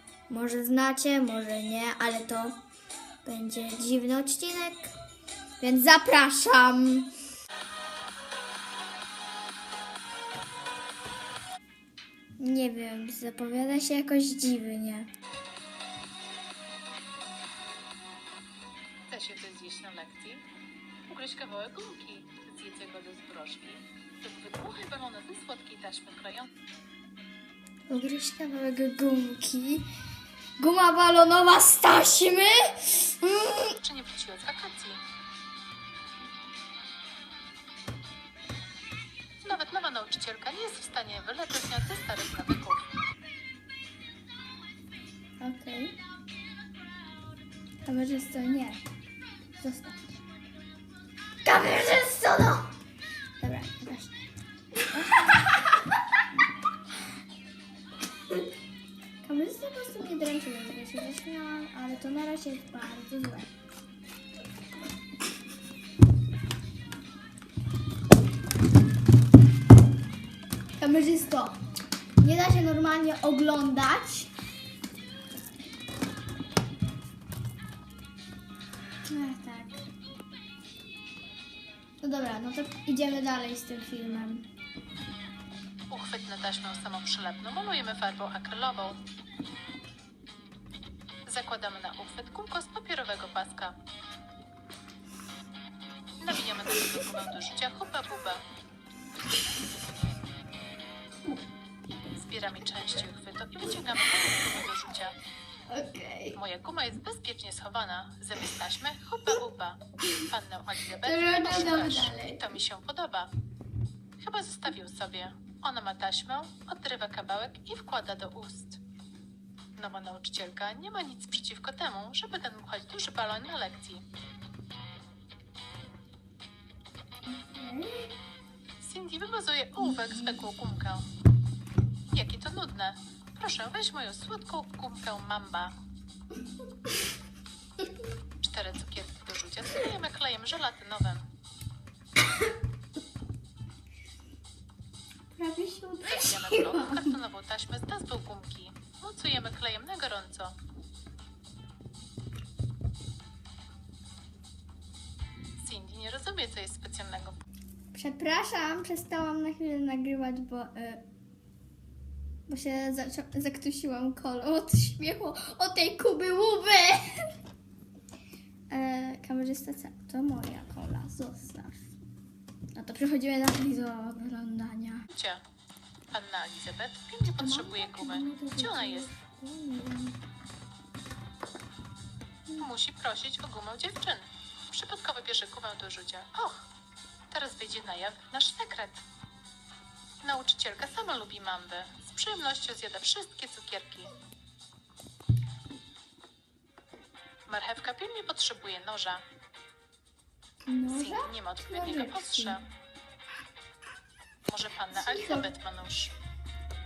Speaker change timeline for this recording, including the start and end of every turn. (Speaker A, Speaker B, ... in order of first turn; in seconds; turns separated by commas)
Speaker A: 0.3-2.6, Speaker A: 3.2-4.9, Speaker A: 5.6-7.1, Speaker A: 12.4-15.1, Speaker B: 19.1-20.5, Speaker B: 21.1-26.5, Speaker A: 27.9-29.9, Speaker A: 30.6-33.8, Speaker B: 33.8-35.0, Speaker B: 39.4-43.0, Speaker A: 45.4-46.0, Speaker A: 47.9-48.8, Speaker A: 49.6-50.2, Speaker A: 51.4-52.7, Speaker A: 53.4-54.1, Speaker A: 54.8-55.5, Speaker A: 59.2-63.5, Speaker A: 70.8-71.6, Speaker A: 72.2-74.3, Speaker A: 79.1-79.9, Speaker A: 82.0-84.5, Speaker B: 85.9-89.0, Speaker B: 91.3-93.7, Speaker B: 96.2-98.4, Speaker B: 102.2-105.2, Speaker A: 105.7-106.4, Speaker B: 106.3-113.3, Speaker A: 111.0-112.4, Speaker B: 114.2-118.8, Speaker B: 119.8-124.0, Speaker A: 127.5-128.1, Speaker B: 128.8-131.1, Speaker B: 132.1-135.7, Speaker B: 138.4-141.3, Speaker A: 145.3-147.1, Speaker B: 146.0-150.6, Speaker B: 155.6-157.4, Speaker A: 157.9-161.0, Speaker A: 162.5-167.3, Speaker A: 168.7-171.8, Speaker A: 172.8-175.1, Speaker B: 175.1-175.4, Speaker B: 176.1-179.1, Speaker A: 177.4-180.2, Speaker B: 182.6-186.7, Speaker B: 187.3-189.0, Speaker B: 190.2-194.1, Speaker B: 197.5-199.2, Speaker A: 200.7-202.6, Speaker B: 200.9-202.6, Speaker B: 204.5-206.1, Speaker A: 204.9-205.5